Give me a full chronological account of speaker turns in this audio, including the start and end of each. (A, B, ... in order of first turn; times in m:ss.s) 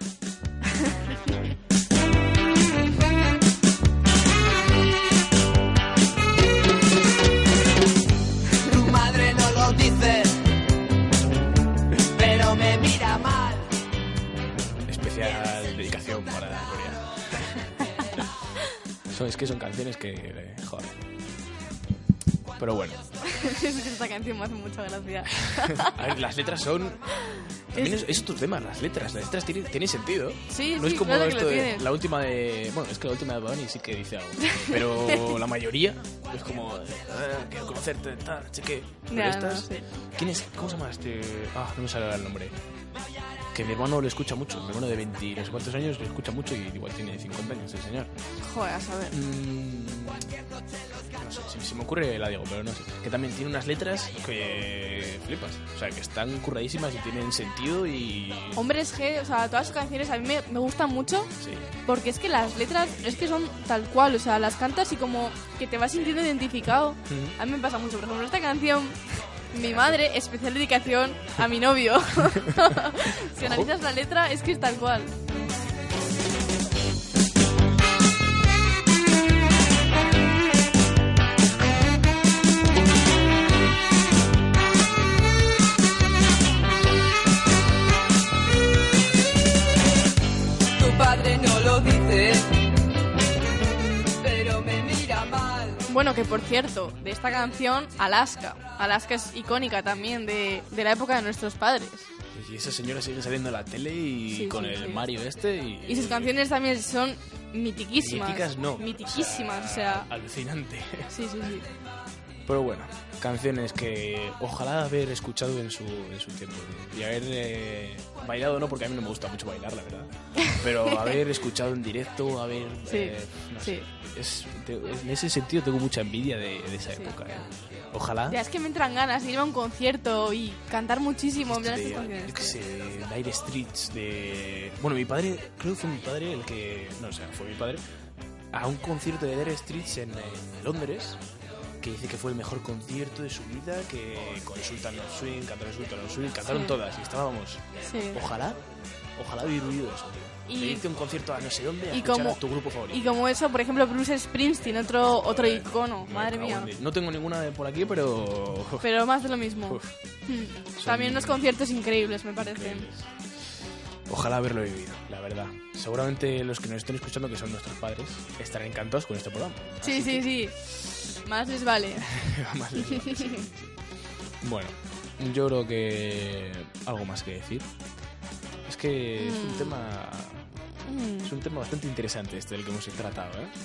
0:08.6-0:10.4 A
0:12.0-0:13.7 A
0:14.9-0:17.5 B
0:19.1-0:20.9 B
0:22.6-0:23.1 B
0:23.2-0:26.0 C
0:25.4-0:27.1 B
0:27.2-0:28.2 C
0:27.7-0:42.6 B
0:30.5-0:31.9 C
0:34.5-0:35.3 C
0:39.1-0:39.8 C
0:43.5-0:48.1 B
0:48.4-0:49.2 C
0:49.1-0:50.3 B
0:51.1-0:58.6 B
0:58.6-1:01.3 C
1:01.4-1:01.7 B
1:01.8-1:15.1 C
1:07.1-1:07.4 B
1:09.6-1:10.0 B
1:12.3-1:13.7 B
1:30.8-1:32.5 D
1:31.1-1:32.2 A
1:34.2-1:35.8 D
1:34.4-1:35.3 A
1:35.9-1:42.1 C
1:42.3-1:46.4 B
1:44.3-1:45.0 C
1:45.8-1:50.1 C
1:48.0-1:51.1 B
1:51.1-1:51.7 C
1:52.5-2:08.4 B
2:00.4-2:01.1 C
2:02.9-2:03.9 C
2:08.3-2:12.4 C
2:11.4-2:17.8 B
2:18.5-2:21.2 B
2:21.8-2:27.6 B
2:26.4-2:26.8 C
2:27.8-2:28.2 C
2:28.1-2:28.6 B
2:29.2-2:33.2 B
2:30.5-2:30.9 C
2:31.9-2:36.7 C
2:35.0-2:38.9 B
2:38.8-2:42.9 C
2:39.7-2:39.9 B
2:40.8-2:41.5 B
2:42.4-2:43.1 B
2:44.1-2:50.4 B
2:49.8-2:50.6 C
2:51.1-2:52.1 C
2:52.0-2:53.8 B
2:52.9-2:53.4 C
2:54.4-2:57.7 B
2:58.7-3:00.5 B
2:59.2-2:59.8 C
3:00.9-3:01.3 C
3:01.2-3:03.5 B